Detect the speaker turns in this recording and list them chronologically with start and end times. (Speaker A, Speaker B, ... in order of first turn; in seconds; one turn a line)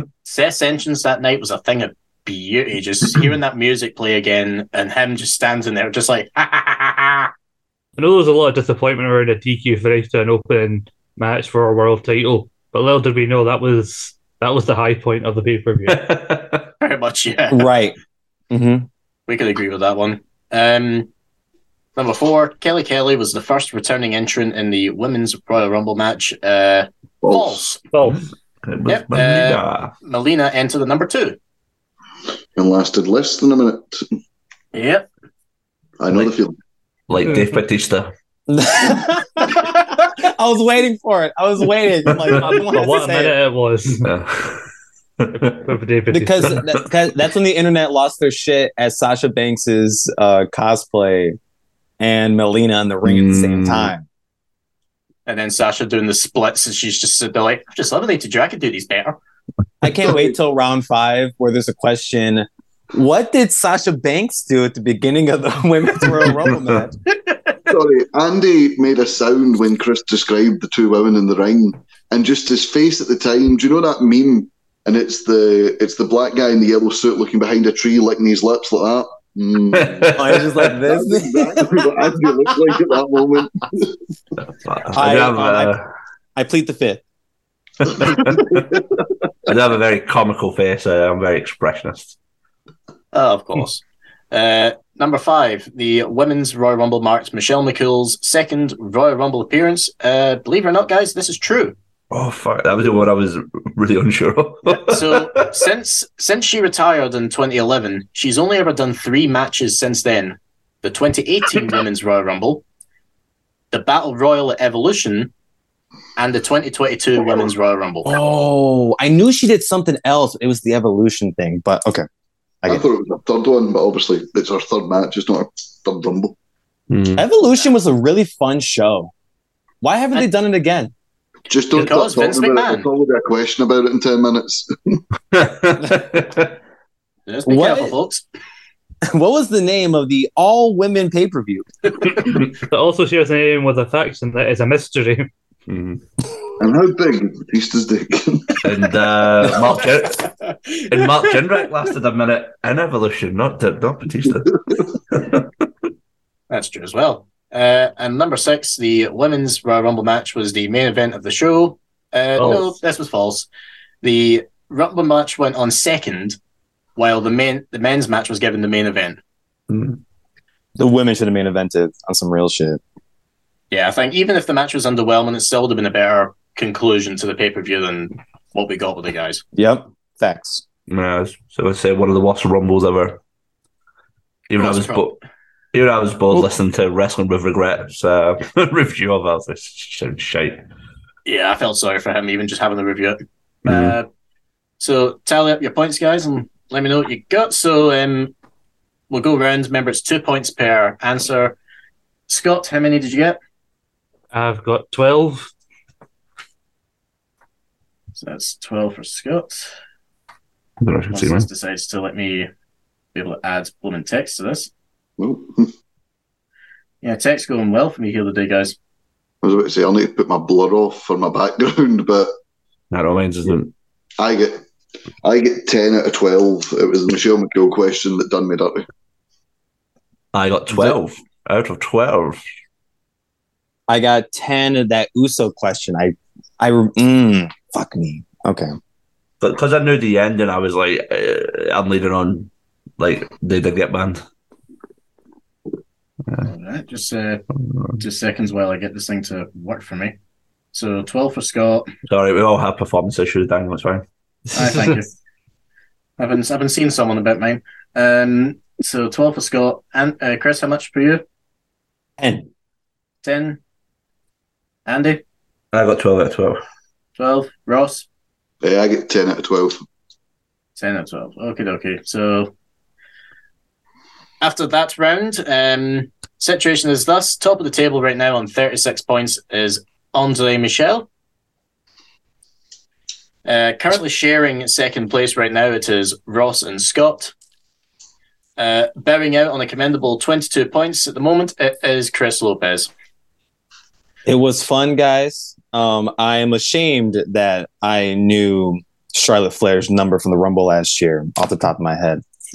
Speaker A: 0.2-7.3
Speaker B: 8.0-16.1
Speaker C: 15.9-16.7
Speaker A: 16.8-17.7
Speaker D: 17.5-17.9
Speaker D: 18.5-18.9
Speaker A: 19.3-21.1
Speaker A: 21.9-27.8
Speaker E: 27.2-27.7
Speaker B: 27.9-28.2
Speaker C: 28.0-29.9
Speaker A: 28.9-31.4
Speaker E: 32.5-34.0
Speaker A: 34.7-35.1
Speaker E: 36.0-36.5
Speaker C: 37.1-38.1
Speaker D: 38.5-43.3
Speaker B: 42.3-44.1
Speaker C: 44.0-44.6
Speaker C: 45.2-45.6
Speaker B: 45.3-46.6
Speaker D: 46.1-51.4
Speaker D: 52.0-54.0
Speaker C: 53.0-53.9
Speaker A: 55.2-59.2
Speaker D: 59.8-66.9
Speaker E: 67.7-84.0
Speaker C: 79.7-80.7
Speaker D: 80.1-81.8
Speaker C: 84.6-85.8
Speaker D: 84.9-85.8
Speaker D: 86.3-87.0
Speaker C: 87.8-88.8
Speaker C: 89.4-92.2
Speaker A: 93.1-101.8
Speaker C: 102.1-105.5
Speaker A: 104.7-112.6
Speaker A: 113.7-115.3
Speaker A: 116.2-118.1
Speaker D: 118.0-122.0
Speaker E: 122.7-126.3
Speaker C: 126.9-127.3
Speaker D: 127.2-129.1
Speaker D: 129.8-130.9
Speaker E: 131.5-135.0
Speaker A: 131.7-132.9
Speaker C: 135.3-136.6
Speaker A: 137.3-138.2
Speaker D: 137.4-137.9
Speaker D: 139.1-141.7
Speaker C: 142.2-142.5
Speaker B: 142.7-145.3
Speaker C: 145.7-146.0
Speaker E: 146.6-148.6
Speaker C: 148.6-150.3
Speaker A: 150.3-151.2
Speaker C: 150.9-155.5
Speaker A: 156.5-163.5
Speaker B: 162.4-162.7
Speaker A: 164.0-166.4
Speaker A: 166.9-169.2
Speaker C: 169.7-170.0
Speaker D: 170.8-172.8
Speaker A: 173.7-179.4
Speaker D: 179.5-180.6
Speaker C: 180.9-183.2
Speaker C: 184.5-185.2
Speaker A: 184.5-185.1
Speaker C: 185.7-190.6
Speaker A: 191.2-194.1
Speaker C: 193.7-194.0
Speaker A: 194.8-198.3
Speaker A: 199.1-201.6
Speaker A: 202.3-203.4
Speaker B: 204.3-205.5
Speaker A: 208.1-209.7
Speaker C: 210.8-211.5
Speaker A: 211.1-212.5
Speaker A: 213.1-214.7
Speaker E: 215.2-215.7
Speaker A: 217.0-218.8
Speaker E: 219.4-222.3
Speaker C: 222.9-223.7
Speaker E: 224.2-224.6
Speaker E: 225.2-228.8
Speaker C: 230.3-232.4
Speaker D: 230.7-230.9
Speaker D: 233.9-238.7
Speaker C: 239.4-244.2
Speaker A: 246.4-247.4
Speaker C: 247.6-248.0
Speaker A: 248.0-250.2
Speaker A: 250.7-251.9
Speaker C: 252.1-254.0
Speaker B: 254.5-255.0
Speaker A: 254.5-255.1
Speaker A: 256.2-261.2
Speaker D: 262.2-262.5
Speaker A: 263.2-263.6
Speaker A: 264.9-265.2
Speaker C: 265.7-266.6
Speaker A: 267.2-268.1
Speaker E: 268.6-269.8
Speaker A: 270.8-272.5
Speaker A: 274.4-281.1
Speaker A: 283.4-287.3
Speaker A: 288.6-292.9
Speaker D: 294.2-302.2